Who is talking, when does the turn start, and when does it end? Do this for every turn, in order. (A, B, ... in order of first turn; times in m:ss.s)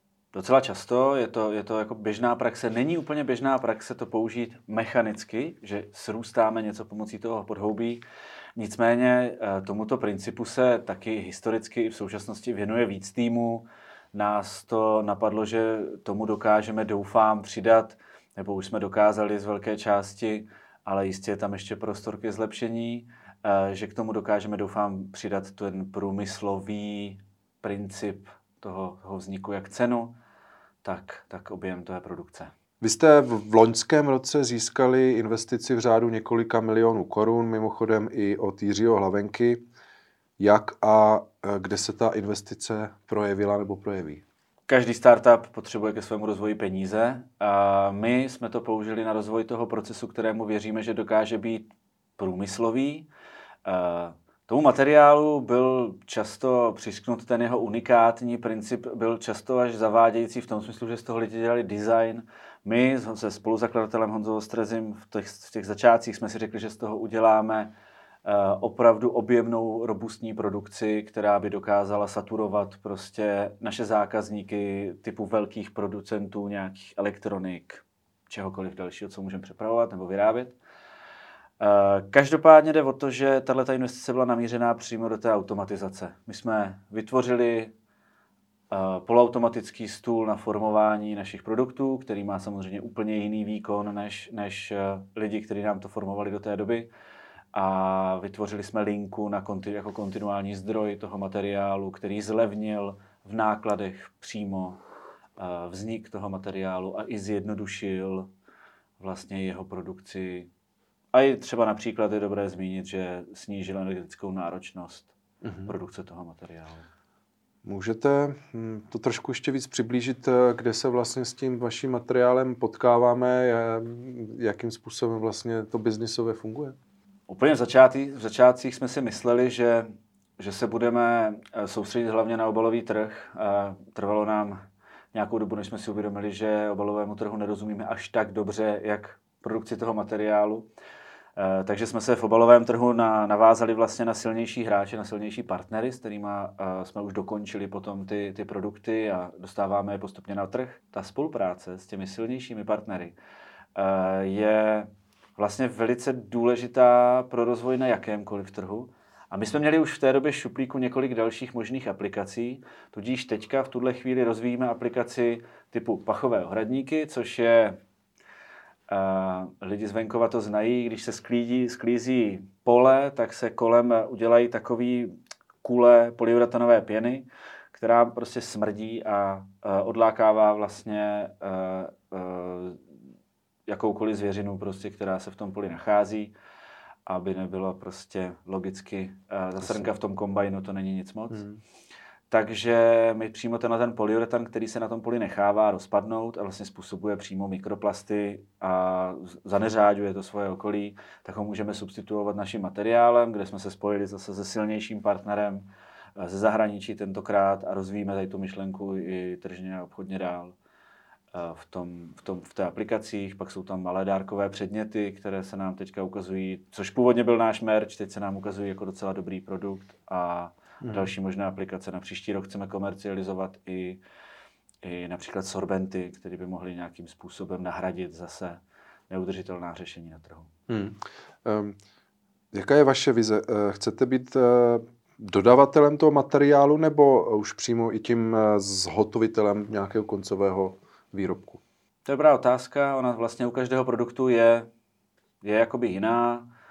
0:00.3-0:08.0 A
0:08.6-0:30.2 A
0:30.8-0:32.5 A
0:32.8-0:39.6 B
0:40.4-0:44.2 B
0:44.7-0:53.1 A
0:53.6-1:07.7 A
1:08.2-1:20.6 A
1:21.6-1:27.7 A
1:28.7-1:36.9 A
1:37.5-1:44.8 A
1:45.4-1:48.3 A
1:49.0-1:50.5 A
1:51.1-1:55.1 A
1:55.4-1:55.7 B
1:55.7-1:56.9 A
1:57.6-2:06.8 B
2:07.3-2:14.6 A
2:15.1-2:20.7 A
2:21.4-2:33.2 A
2:33.8-2:47.8 A
2:48.9-3:02.8 A
3:03.7-3:06.3 A
3:07.1-3:11.5 A
3:11.3-3:11.6 B
3:12.3-3:30.6 A
3:31.3-3:44.0 A
3:40.8-3:41.1 B
3:44.8-3:50.5 A
3:50.7-3:51.8 B
3:52.5-4:01.6 B
4:02.0-4:04.7 A
4:05.4-4:06.5 A